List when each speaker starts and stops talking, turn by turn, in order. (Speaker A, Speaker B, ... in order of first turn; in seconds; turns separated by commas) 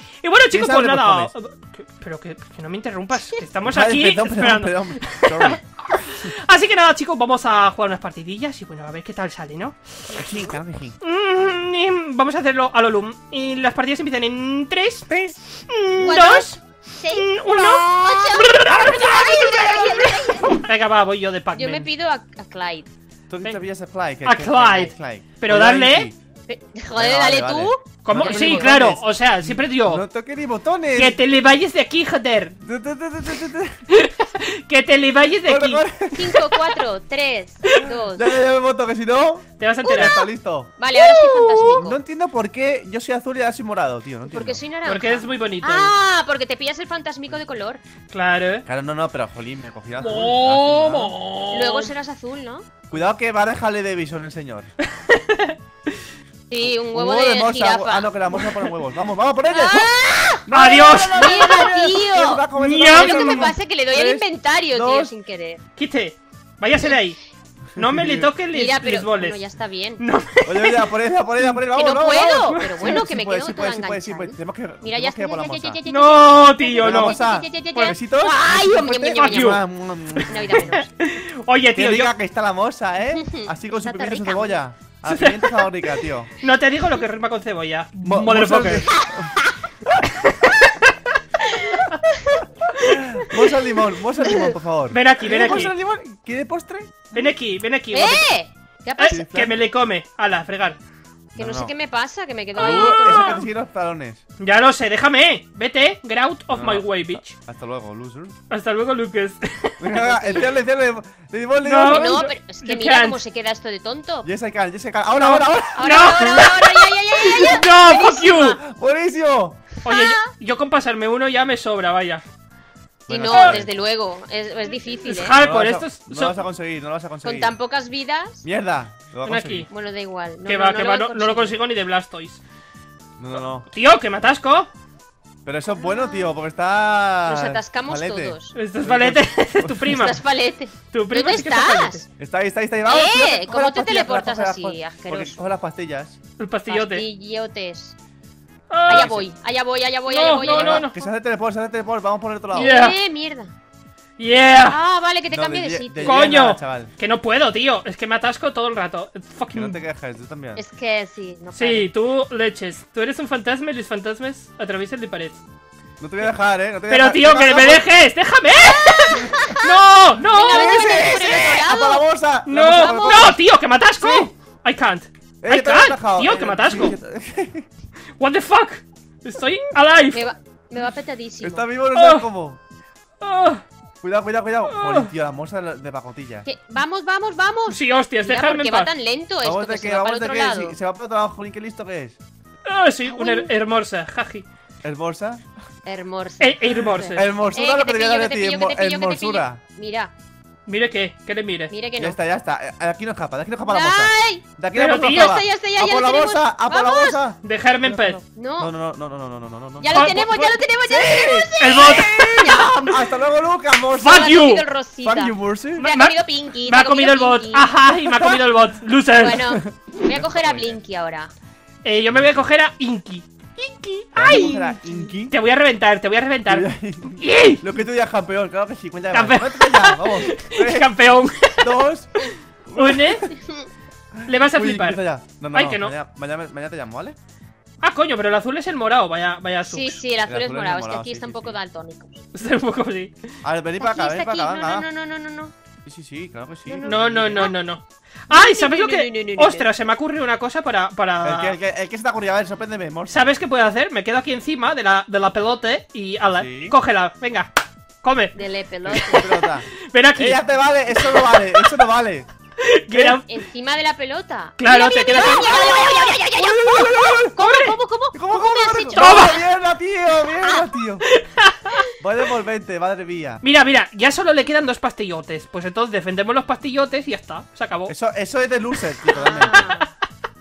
Speaker A: 0.2-10.2, Speaker B: 0.5-1.3, Speaker B: 3.6-6.3, Speaker B: 10.2-11.0, Speaker A: 11.0-21.9, Speaker B: 15.1-15.4, Speaker C: 16.0-20.6, Speaker C: 21.6-22.9, Speaker B: 23.3-26.2, Speaker A: 24.2-26.1, Speaker C: 26.5-28.8, Speaker B: 26.9-31.2, Speaker A: 28.0-30.0, Speaker A: 30.9-32.6, Speaker B: 32.6-33.8, Speaker A: 33.9-35.8, Speaker B: 35.5-36.4, Speaker C: 36.1-38.3, Speaker B: 37.9-40.7, Speaker A: 39.6-40.1, Speaker C: 39.9-40.2, Speaker C: 40.8-42.0, Speaker A: 41.0-41.9, Speaker B: 41.8-44.6, Speaker C: 44.3-47.8, Speaker A: 44.9-45.9, Speaker A: 48.1-48.7, Speaker B: 48.7-51.2, Speaker A: 50.0-51.9, Speaker C: 51.5-52.7, Speaker B: 52.9-54.7, Speaker A: 54.9-55.6, Speaker C: 56.5-58.5, Speaker B: 56.6-65.1, Speaker C: 59.5-65.6, Speaker A: 60.5-61.8, Speaker A: 62.5-63.5, Speaker A: 65.8-67.2, Speaker A: 67.8-69.4, Speaker B: 67.8-68.3, Speaker C: 68.5-70.0, Speaker A: 70.0-70.9, Speaker B: 70.5-75.8, Speaker C: 71.7-79.6, Speaker A: 75.9-77.2, Speaker B: 76.8-80.7, Speaker A: 79.1-79.6, Speaker A: 80.1-82.1, Speaker C: 80.3-80.9, Speaker B: 81.8-86.3, Speaker C: 83.2-84.6, Speaker A: 85.1-85.7, Speaker A: 86.4-88.9, Speaker B: 88.0-89.3, Speaker C: 88.9-89.5, Speaker B: 89.9-90.3, Speaker A: 90.3-90.9, Speaker C: 91.5-92.4, Speaker A: 91.7-92.0, Speaker B: 92.8-97.1, Speaker C: 94.2-94.5, Speaker A: 94.9-95.7, Speaker A: 97.1-98.3, Speaker C: 97.9-99.2, Speaker A: 99.0-100.8, Speaker B: 99.1-99.6, Speaker B: 101.3-101.7, Speaker C: 101.4-103.5, Speaker B: 102.5-104.2, Speaker A: 102.6-103.4, Speaker A: 104.4-107.4, Speaker B: 106.5-108.4, Speaker A: 108.5-109.9, Speaker B: 109.8-112.2, Speaker C: 110.0-110.5, Speaker A: 111.6-113.2, Speaker C: 111.8-114.3, Speaker B: 114.2-116.4, Speaker A: 115.2-118.6, Speaker C: 115.4-118.6, Speaker B: 118.6-119.6, Speaker A: 119.8-122.2, Speaker C: 119.9-120.2, Speaker B: 123.1-123.7, Speaker C: 123.1-125.4, Speaker A: 123.3-123.6, Speaker A: 125.0-126.4, Speaker B: 125.4-127.5, Speaker C: 127.2-128.4, Speaker B: 128.4-129.7, Speaker A: 129.2-129.7, Speaker C: 129.7-131.6, Speaker A: 130.5-132.4, Speaker B: 133.2-133.7, Speaker A: 133.7-134.7, Speaker B: 135.4-140.1, Speaker C: 135.7-136.4, Speaker C: 137.3-138.6, Speaker A: 138.6-140.2, Speaker C: 140.0-142.1, Speaker A: 140.9-142.0, Speaker B: 142.2-146.2, Speaker C: 142.9-145.4, Speaker A: 146.4-147.0, Speaker C: 146.7-148.0, Speaker A: 148.7-149.2, Speaker C: 148.8-151.1, Speaker B: 148.9-149.2, Speaker A: 150.1-150.9, Speaker B: 150.3-152.7, Speaker C: 152.5-153.5, Speaker A: 152.5-152.9, Speaker A: 154.2-154.8, Speaker C: 154.6-156.3, Speaker B: 155.3-156.9, Speaker A: 156.0-159.8, Speaker B: 159.5-160.6, Speaker C: 160.6-161.9, Speaker A: 161.6-165.4, Speaker B: 166.0-167.9, Speaker A: 166.9-171.5, Speaker C: 168.8-169.7, Speaker C: 170.3-173.4, Speaker B: 170.4-173.4, Speaker A: 172.5-177.0, Speaker B: 174.0-174.3, Speaker B: 175.4-177.7, Speaker A: 178.2-180.2, Speaker C: 180.1-181.7, Speaker B: 181.4-182.6, Speaker A: 181.9-182.3, Speaker A: 183.2-183.6, Speaker B: 184.0-186.5, Speaker A: 184.7-185.1, Speaker C: 186.4-190.8, Speaker A: 187.7-188.9, Speaker B: 189.4-192.2, Speaker A: 192.7-194.5, Speaker C: 193.1-193.5, Speaker B: 194.8-195.4, Speaker C: 195.8-200.1, Speaker A: 196.4-197.2, Speaker B: 197.1-199.6, Speaker A: 200.7-201.7, Speaker C: 201.7-202.2, Speaker B: 202.0-214.4, Speaker C: 203.7-207.2, Speaker A: 204.7-205.3, Speaker A: 207.4-208.2, Speaker C: 208.4-208.7, Speaker C: 209.8-213.0, Speaker A: 209.9-210.2, Speaker A: 211.6-212.5, Speaker A: 213.9-214.6, Speaker C: 214.0-217.7, Speaker B: 215.0-215.8, Speaker A: 215.8-219.5, Speaker B: 217.9-218.4, Speaker C: 219.2-221.3, Speaker B: 219.5-220.8, Speaker A: 221.8-224.8, Speaker B: 222.1-222.4, Speaker B: 224.2-225.4, Speaker A: 225.3-227.6, Speaker B: 226.5-230.9, Speaker A: 229.1-231.7, Speaker B: 231.6-233.3, Speaker A: 232.2-233.2, Speaker B: 234.2-237.2, Speaker A: 234.3-235.0, Speaker A: 235.5-235.9, Speaker A: 237.8-240.0, Speaker C: 239.7-242.2, Speaker B: 240.3-241.6, Speaker A: 242.3-243.1, Speaker B: 243.4-244.9, Speaker C: 243.8-245.5, Speaker B: 245.8-247.5, Speaker C: 246.7-247.6, Speaker A: 246.8-251.6, Speaker C: 248.3-249.7, Speaker B: 251.2-253.2, Speaker A: 253.1-257.5, Speaker B: 256.3-256.8, Speaker A: 258.0-258.4, Speaker C: 258.4-259.3, Speaker B: 258.9-262.3, Speaker A: 259.8-261.7, Speaker A: 262.6-263.3, Speaker B: 262.9-263.2, Speaker C: 263.3-269.4, Speaker A: 264.6-265.9, Speaker B: 265.2-267.4, Speaker A: 267.4-267.8, Speaker B: 268.1-271.0, Speaker A: 268.9-269.4, Speaker A: 271.1-271.6, Speaker B: 272.0-273.4, Speaker A: 273.4-277.9, Speaker B: 277.9-279.7, Speaker C: 279.1-279.9, Speaker A: 279.4-279.9